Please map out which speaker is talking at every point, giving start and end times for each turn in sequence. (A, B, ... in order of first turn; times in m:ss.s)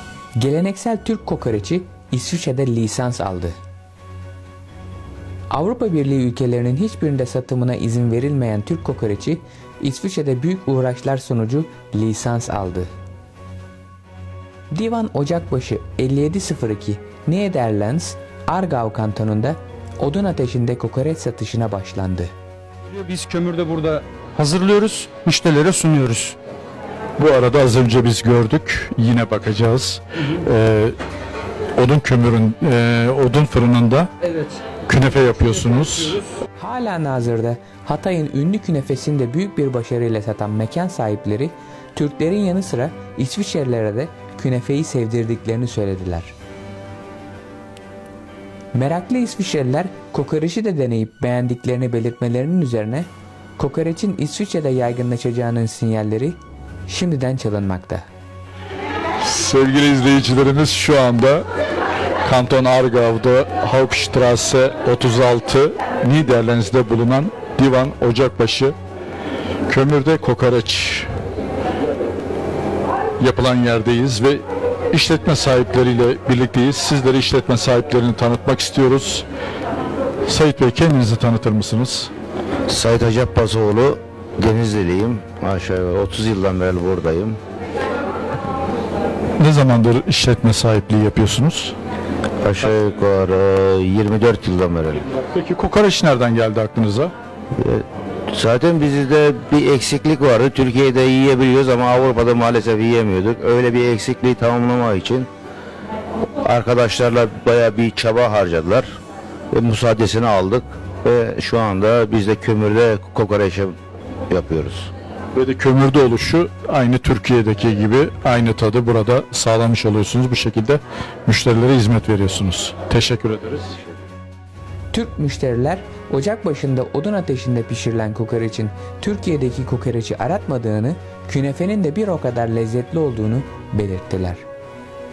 0:00.4-0:03.6 A
0:05.5-0:12.9 A
0:14.7-0:22.3 A
0:22.9-0:26.4 B
0:27.2-0:31.0 C
0:31.8-0:36.2 C
0:36.6-0:46.4 A
0:48.7-0:58.1 A
0:59.2-1:01.5 C
1:02.2-1:08.8 C
1:09.7-1:11.1 C
1:13.2-1:19.2 C
1:20.3-1:22.1 C
1:22.7-1:27.4 D
1:29.4-1:31.7 C
1:32.4-1:35.1 D
1:35.3-1:37.1 C
1:37.6-1:45.3 D
1:46.4-1:48.9 D
1:49.5-1:53.8 D
1:54.3-1:54.9 D
1:55.4-2:03.8 C
2:04.9-2:14.5 A